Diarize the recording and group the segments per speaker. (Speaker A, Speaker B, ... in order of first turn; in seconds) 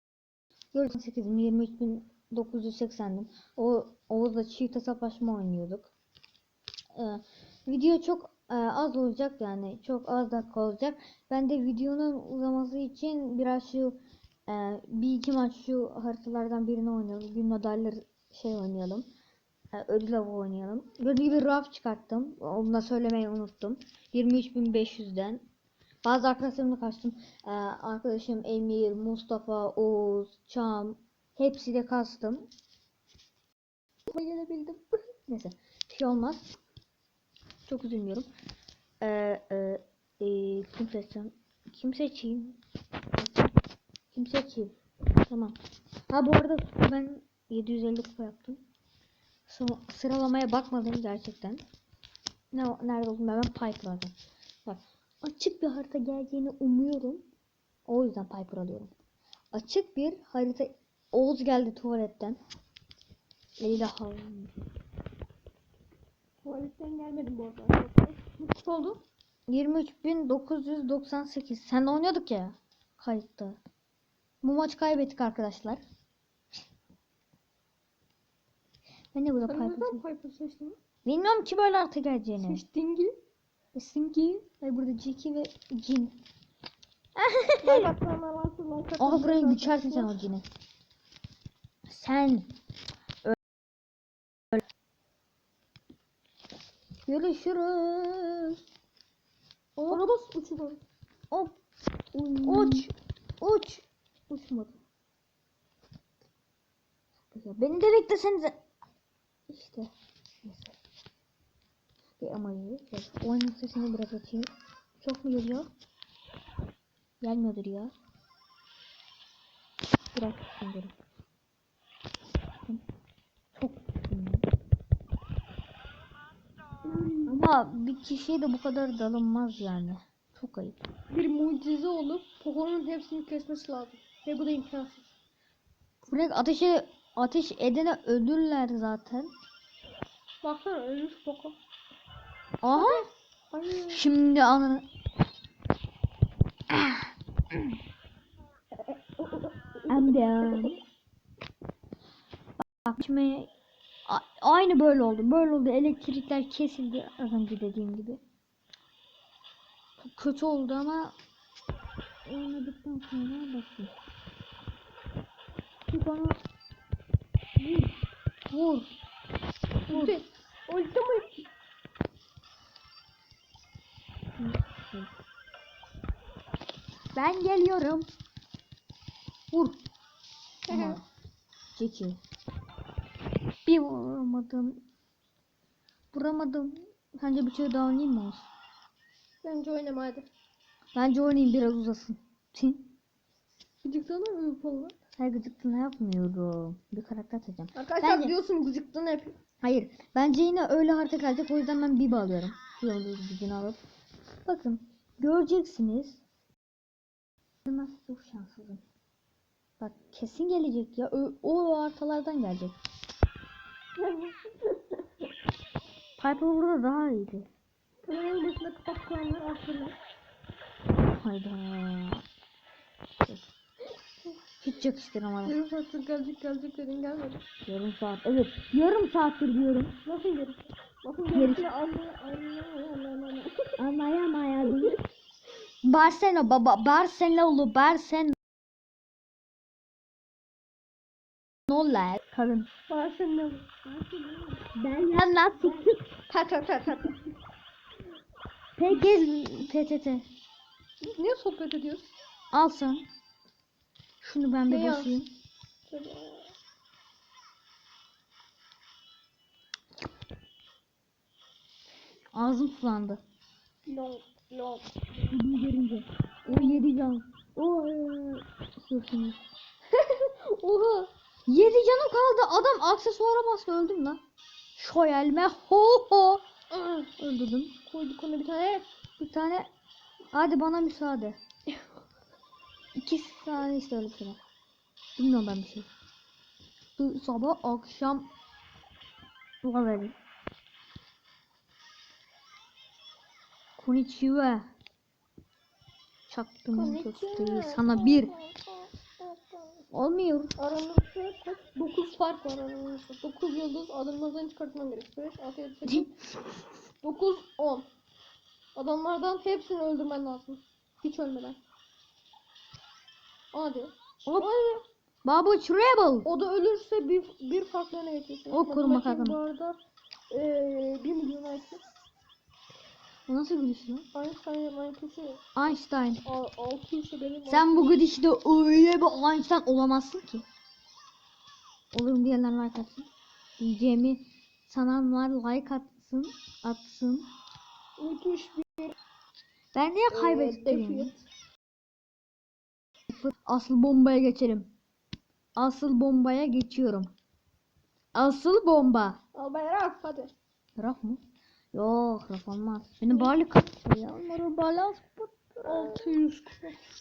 Speaker A: 0.7-5.9, 6.9-19.1, 19.7-25.4, 26.0-32.5, 35.3-36.5, 37.7-38.3, 39.0-42.6, 43.1-43.5, 44.1-44.7, 45.3-45.5, 46.1-48.6, 49.5-51.6, 52.5-54.1, 54.6-57.2, 57.9-58.9, 59.5-62.4, 63.6-64.5, 69.5-73.6, 74.4-75.8, 79.1-80.0, 81.0-82.6, 83.7-86.1, 87.2-87.9, 89.0-90.4, 91.9-92.5, 97.1-98.6, 102.1-104.8, 107.3-108.6, 109.5-109.9, 110.4-110.8, 112.2-114.5, 115.0-115.7, 117.2-117.9, 120.1-120.9, 123.5-124.4, 127.3-130.8, 136.1-139.3, 142.6-143.1, 143.8-144.8, 146.7-147.1, 149.9-150.8, 152.6-153.5, 154.1-158.2, 160.0-161.1, 162.2-163.9, 165.9-166.4, 167.6-167.9, 168.5-168.9, 169.9-170.2, 174.4-175.1, 177.1-178.1, 179.5-179.8, 180.7-181.0, 181.7-182.2, 183.7-184.8, 186.1-188.5, 190.9-192.9, 195.2-198.3, 199.6-203.8, 204.4-206.2, 207.6-208.8, 209.8-212.8, 216.2-217.5, 221.1-222.2, 224.6-225.6, 227.7-230.0, 231.3-231.7, 233.8-234.9, 235.8-238.4, 241.7-242.7, 244.7-246.0, 248.8-250.2, 252.5-253.1, 254.2-255.3, 262.3-263.2, 265.3-269.4, 271.5-274.2, 274.8-276.4, 277.2-277.7, 279.2-279.7, 280.3-281.4, 282.9-284.4, 285.1-285.9, 287.0-288.3, 289.6-290.1, 293.8-294.7, 296.3-298.3, 299.9-300.5, 315.2-316.3, 318.5-319.4, 323.3-324.1, 325.6-326.2, 327.5-330.4, 331.9-333.1, 333.6-337.3, 339.7-341.1, 343.1-344.7, 345.6-347.1, 348.1-349.2, 350.8-351.2, 351.7-356.2
Speaker B: 34.1-35.0, 66.4-69.0, 79.4-80.8, 82.4-83.1, 87.6-90.2, 99.8-100.8, 102.4-102.9, 126.8-127.3, 131.1-135.1, 140.4-141.6, 142.7-144.0, 148.8-150.8, 169.9-171.5, 180.7-181.0, 189.4-190.3, 193.8-194.9, 197.7-199.4, 214.0-215.0, 218.0-220.0, 225.4-227.4, 230.0-233.8, 234.7-234.9, 242.9-244.7, 245.6-247.2, 251.0-252.1, 254.7-255.1, 255.9-256.5, 263.9-264.9, 266.4-266.8, 269.9-271.1, 276.7-277.1, 277.9-278.9, 296.7-299.8, 300.6-306.1, 307.0-307.9, 308.7-311.6, 313.5-314.8, 316.2-321.8, 324.1-325.4, 326.2-328.0, 338.0-338.9, 340.1-341.2, 349.3-350.3, 353.1-353.4, 355.6-356.8